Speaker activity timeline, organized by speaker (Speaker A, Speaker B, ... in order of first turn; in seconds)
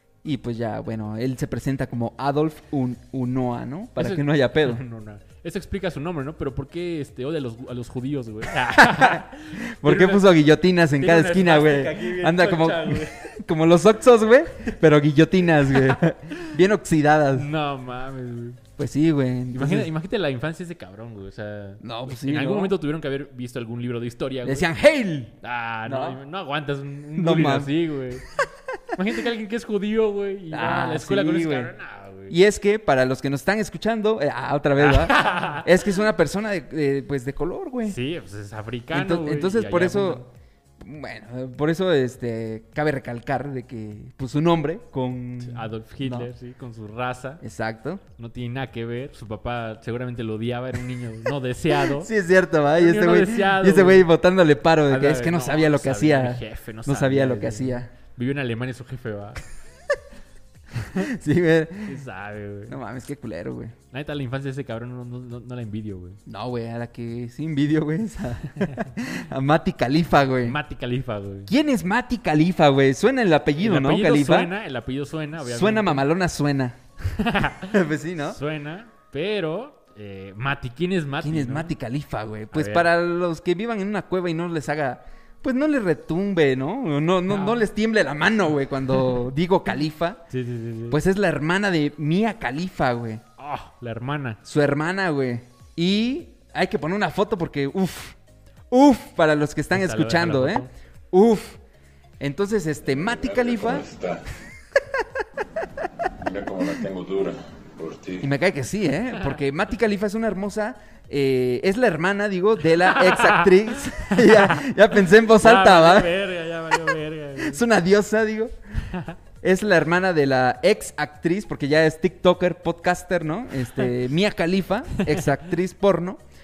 Speaker A: 0.2-4.8, 8.7-17.5, 18.8-19.9, 21.8-22.8, 24.4-26.2, 27.2-28.4, 30.5-31.7, 32.3-38.0, 38.9-40.2, 40.8-46.3, 47.4-48.0, 51.7-57.9, 61.0-62.0, 62.7-63.8, 66.3-70.6, 71.5-74.5, 75.4-76.8, 77.6-78.4, 81.2-90.2, 90.9-93.2, 94.5-98.2, 98.7-101.6, 102.2-104.0, 108.2-116.2, 116.8-118.5, 119.4-126.2
Speaker B: 4.0-10.3, 11.0-13.4, 15.6-16.6, 17.3-18.6, 19.5-24.7, 25.4-32.4, 34.8-35.9, 37.8-40.3, 45.4-47.4, 48.2-52.1, 52.8-54.1, 54.9-59.5, 61.9-62.8, 63.9-66.2, 68.6-68.9, 70.5-71.5, 73.6-76.0, 77.1-81.7, 82.5-82.9, 87.3-87.7, 88.9-89.2, 90.3-91.0, 93.4-94.4, 99.7-100.7, 112.7-117.6, 118.9-119.2
Speaker C: 103.4-104.2, 106.2-108.3